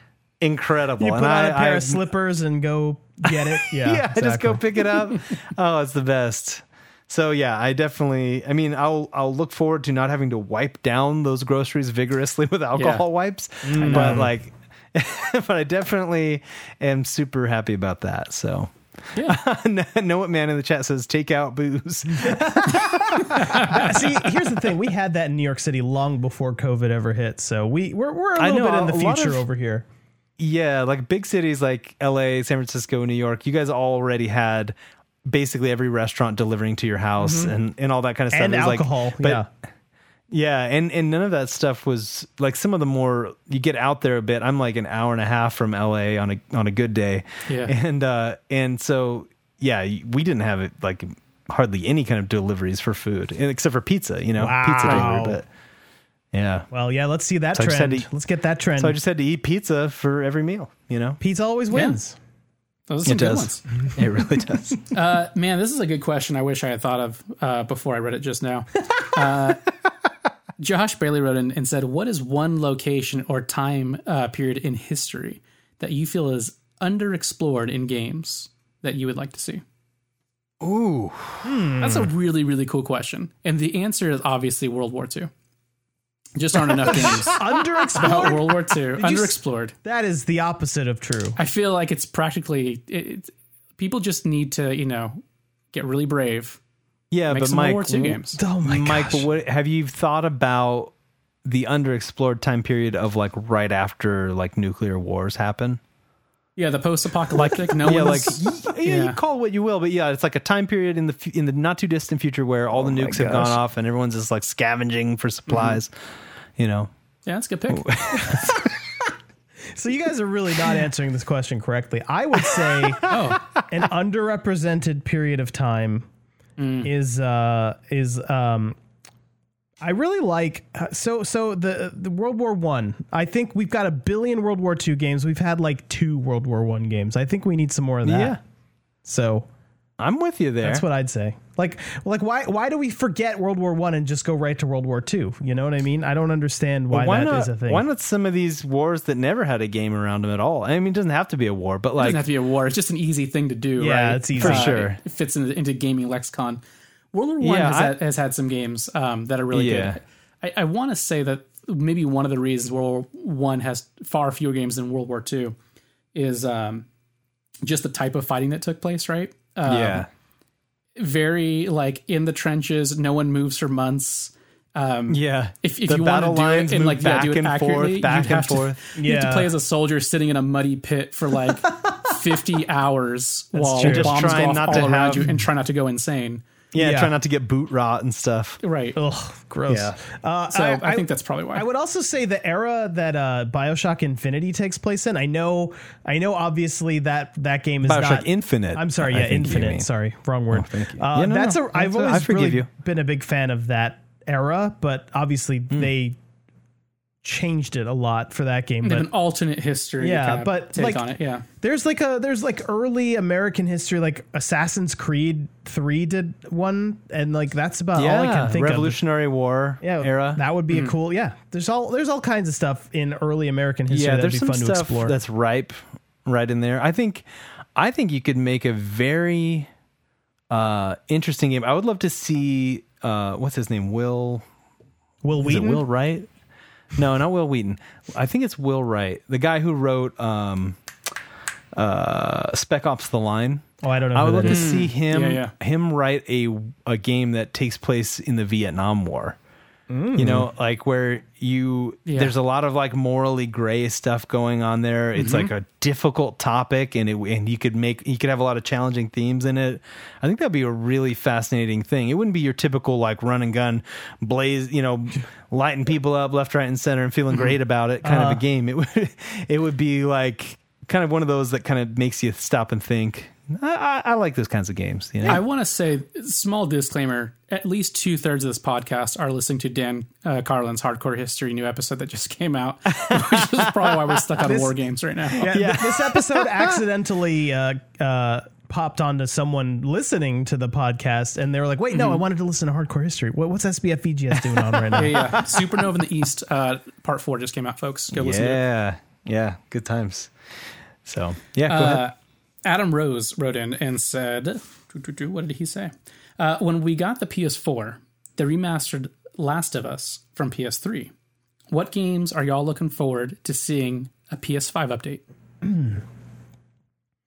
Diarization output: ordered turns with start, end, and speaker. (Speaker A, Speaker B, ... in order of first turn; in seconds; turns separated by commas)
Speaker A: 0.4-2.1, Speaker B: 1.0-4.6, Speaker A: 3.3-24.3, Speaker C: 12.8-13.0, Speaker B: 13.7-14.3, Speaker C: 13.8-14.3, Speaker B: 23.4-29.9, Speaker C: 23.5-23.9, Speaker A: 28.4-29.4, Speaker A: 30.4-34.8, Speaker A: 35.3-39.5, Speaker B: 37.2-37.5, Speaker B: 38.3-39.5, Speaker A: 40.3-55.5, Speaker C: 47.5-47.7, Speaker B: 54.4-55.4, Speaker C: 54.8-55.1, Speaker A: 56.3-56.7, Speaker B: 56.7-59.0, Speaker A: 57.5-58.1, Speaker A: 58.8-61.2, Speaker B: 61.2-62.2, Speaker C: 61.7-62.0, Speaker C: 62.9-63.6, Speaker A: 63.0-64.9, Speaker C: 64.9-69.7, Speaker C: 70.6-79.6, Speaker A: 80.6-81.5, Speaker B: 81.4-82.1, Speaker C: 81.8-85.3, Speaker C: 86.4-87.4, Speaker B: 86.7-91.4, Speaker A: 86.9-88.0, Speaker C: 88.0-89.7, Speaker C: 91.4-95.2, Speaker C: 95.7-96.6, Speaker A: 97.1-100.9, Speaker C: 97.3-98.4, Speaker B: 98.4-99.3, Speaker A: 101.5-105.8, Speaker C: 106.6-109.2, Speaker A: 107.3-115.9, Speaker B: 112.9-113.5, Speaker C: 115.5-115.8, Speaker A: 116.6-116.9, Speaker C: 117.3-117.9, Speaker A: 117.7-118.8, Speaker B: 119.7-123.2, Speaker A: 122.7-123.2, Speaker C: 123.1-123.4, Speaker B: 123.7-126.1, Speaker C: 126.6-126.9, Speaker B: 126.8-128.8, Speaker B: 129.8-138.4, Speaker A: 138.0-138.4, Speaker B: 139.1-139.5, Speaker A: 140.0-140.9, Speaker B: 140.6-147.8, Speaker A: 146.9-152.2, Speaker C: 152.0-156.6, Speaker B: 153.8-154.7, Speaker A: 154.4-155.0, Speaker C: 157.1-165.6, Speaker A: 157.4-158.0, Speaker A: 159.5-160.0, Speaker C: 166.1-166.8, Speaker C: 167.6-170.1, Speaker A: 169.6-170.1, Speaker C: 171.0-186.4, Speaker A: 175.1-178.8, Speaker B: 179.0-179.5, Speaker B: 183.6-184.9, Speaker A: 183.8-185.4, Speaker A: 186.7-188.6, Speaker B: 186.8-187.1, Speaker C: 188.6-189.0, Speaker B: 188.9-206.2, Speaker A: 189.7-190.0, Speaker C: 190.5-191.7, Speaker A: 197.8-199.9, Speaker A: 200.5-202.7, Speaker B: 207.2-209.1, Speaker C: 208.8-211.4, Speaker B: 210.0-211.1, Speaker B: 211.6-219.0, Speaker A: 217.9-220.4, Speaker B: 219.8-225.2, Speaker C: 220.7-221.0, Speaker A: 223.9-227.2, Speaker A: 227.8-229.7, Speaker A: 230.5-234.4, Speaker B: 235.2-235.8, Speaker A: 235.4-236.3, Speaker A: 236.9-240.8, Speaker A: 241.8-249.4, Speaker B: 243.8-244.8, Speaker C: 244.4-245.5, Speaker B: 249.9-250.5, Speaker A: 250.2-275.4, Speaker C: 252.1-252.3, Speaker C: 255.2-255.5, Speaker B: 268.1-268.4, Speaker C: 275.3-285.5, Speaker A: 283.0-284.2, Speaker B: 284.5-284.7, Speaker B: 285.4-295.4, Speaker A: 285.5-286.9, Speaker C: 291.9-292.2, Speaker C: 294.9-298.6, Speaker A: 298.1-300.3, Speaker A: 301.1-302.1, Speaker C: 301.7-311.1, Speaker C: 311.7-315.2